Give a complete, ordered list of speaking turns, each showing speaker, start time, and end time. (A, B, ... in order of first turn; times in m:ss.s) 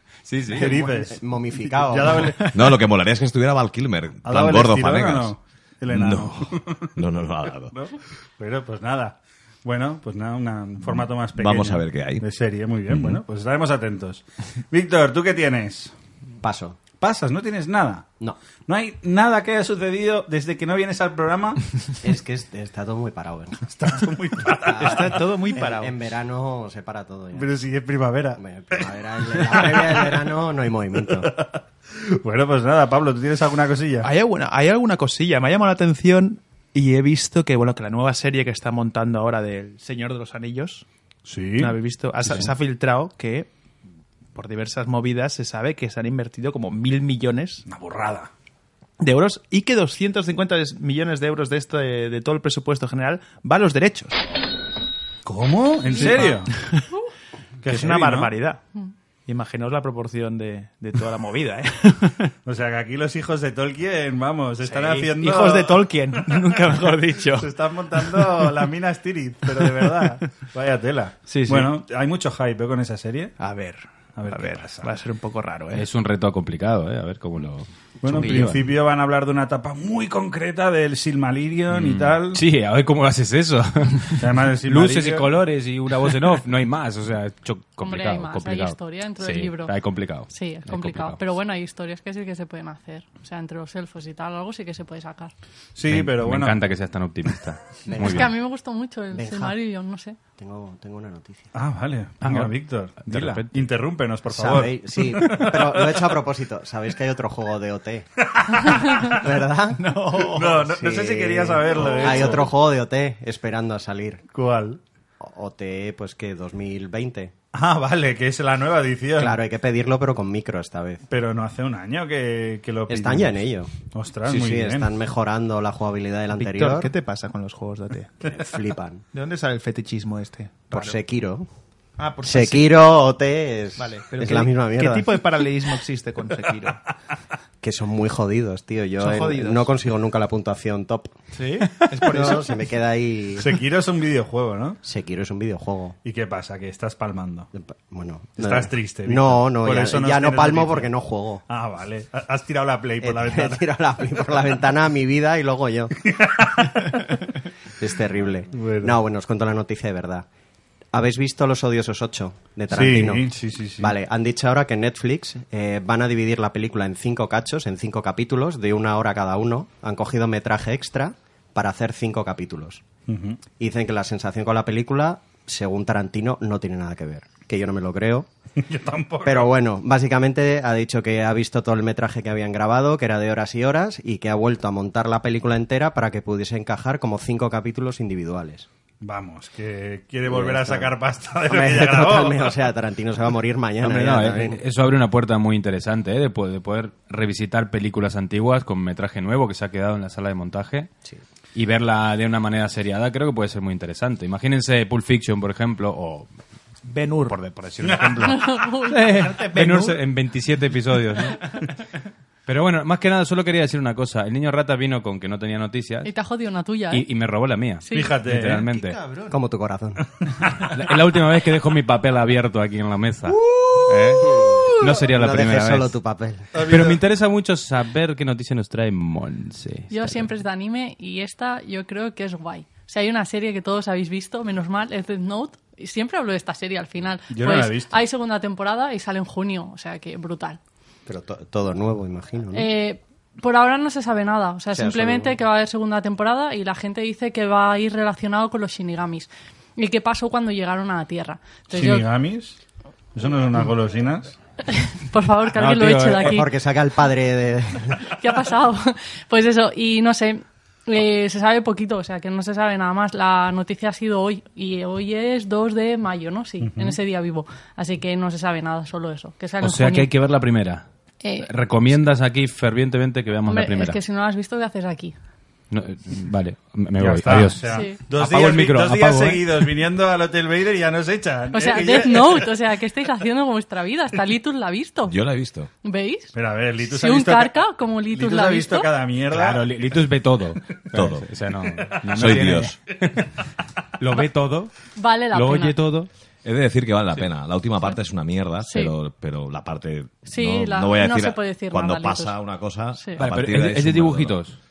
0:00.3-0:00.7 A
0:00.5-0:02.3 B
0:00.5-0:02.8 C
0:02.5-0:05.3 D
0:04.2-0:07.1 C
0:05.9-0:07.7 D
0:07.6-0:15.9 C
0:10.9-0:12.2 D
0:12.9-0:13.2 D
0:16.4-0:16.8 B
0:17.0-0:18.1 C
0:18.7-0:21.7 C
0:22.0-0:23.6 B
0:23.7-0:25.3 C
0:24.6-0:25.0 B
0:24.8-0:25.9 E
0:25.5-0:27.5 B
0:27.4-0:30.2 C
0:28.4-0:31.3 B
0:31.2-0:34.1 C
0:34.0-0:40.8 E
0:41.3-0:41.8 C
0:41.6-0:43.5 E
0:44.4-0:47.6 E
0:47.7-0:48.3 C
0:49.0-0:54.2 E
0:55.2-0:56.5 C
0:55.9-0:56.8 E
0:57.6-0:58.3 C
0:57.7-0:58.6 E
0:59.3-1:02.3 E
1:02.4-1:05.8 C
1:04.6-1:08.6 E
1:06.8-1:13.4 C
1:09.5-1:10.0 E
1:11.3-1:11.7 E
1:13.4-1:15.9 E
1:14.2-1:14.9 C
1:15.7-1:18.6 A
1:18.0-1:22.4 C
1:18.1-1:18.5 E
1:21.7-1:31.2 A
1:24.2-1:25.3 C
1:27.8-1:29.7 F
1:30.3-1:35.3 F
1:35.8-1:36.6 C
1:35.9-1:38.3 A
1:37.9-1:38.4 B
1:38.0-1:40.2 F
1:39.1-1:39.6 B
1:40.4-1:41.5 B
1:41.6-1:46.1 C
1:42.2-1:43.6 A
1:44.3-1:48.1 B
1:48.3-1:49.2 C
1:49.0-1:49.8 B
1:49.8-1:50.7 E
1:50.2-1:52.5 C
1:50.8-1:54.2 B
1:54.3-1:54.8 C
1:55.2-1:57.3 B
1:57.5-1:59.4 C
1:59.2-2:01.0 B
2:01.1-2:04.9 C
2:02.9-2:03.7 B
2:04.3-2:06.9 B
2:06.3-2:08.2 E
2:08.2-2:09.0 B
2:09.1-2:10.8 E
2:10.7-2:11.5 B
2:12.0-2:12.7 E
2:12.2-2:15.1 B
2:13.8-2:16.8 E
2:17.6-2:21.1 B
2:19.0-2:19.7 E
2:21.3-2:22.5 E
2:22.0-2:23.6 B
2:23.4-2:24.8 C
2:24.8-2:26.0 B
2:26.0-2:27.5 C
2:27.5-2:31.4 B
2:28.4-2:30.9 C
2:31.5-2:33.6 C
2:33.0-2:36.0 B
2:36.1-2:37.2 C
2:37.8-2:40.3 B
2:38.5-2:39.0 C
2:40.9-2:52.8 B
2:42.7-2:43.9 C
2:53.1-2:53.4 C
2:53.6-2:58.3 B
2:58.6-2:59.5 C
2:59.2-3:08.7 B
3:09.0-3:12.6 C
3:10.3-3:14.6 B
3:13.8-3:20.9 A
3:21.6-3:26.3 A
3:26.8-3:27.4 E
3:27.2-3:31.4 A
3:27.8-3:28.6 C
3:28.2-3:29.0 F
3:29.0-3:30.0 E
3:32.5-3:36.1 A
3:36.0-3:37.0 F
3:36.9-3:39.0 A
3:37.8-3:38.2 F
3:37.9-3:38.6 C
3:38.7-3:39.3 E
3:39.3-3:40.1 B
3:40.7-3:46.0 A
3:43.4-3:47.0 B
3:46.6-3:46.9 C
3:46.7-3:50.2 A
3:49.9-4:00.6 F
3:57.3-3:57.9 C
4:01.1-4:02.7 B
4:02.5-4:12.1 F
4:04.7-4:05.3 B
4:11.7-4:12.6 C
4:13.2-4:14.4 C
4:14.7-4:16.5 F
4:15.6-4:16.3 A
4:16.2-4:18.1 B
4:18.1-4:30.1 F
4:26.6-4:27.0 C
4:29.6-4:30.9 A
4:31.2-4:31.5 F
4:31.4-4:34.0 A
4:33.5-4:35.2 F
4:35.7-4:39.7 A
4:37.0-4:42.5 C
4:37.6-4:38.0 F
4:41.5-4:45.2 F
4:45.0-4:45.7 D
4:45.8-4:46.3 F
4:46.4-4:47.6 C
4:46.8-4:48.9 F
4:48.1-4:49.6 C
4:49.3-4:53.3 A
4:51.0-4:51.3 D
4:52.1-4:52.8 D
4:54.0-4:54.7 A
4:55.0-4:55.8 F
4:55.3-4:56.1 A
4:56.4-5:04.5 D
4:58.6-4:58.9 F
5:00.3-5:02.4 F
5:02.9-5:03.2 F
5:03.2-5:04.6 A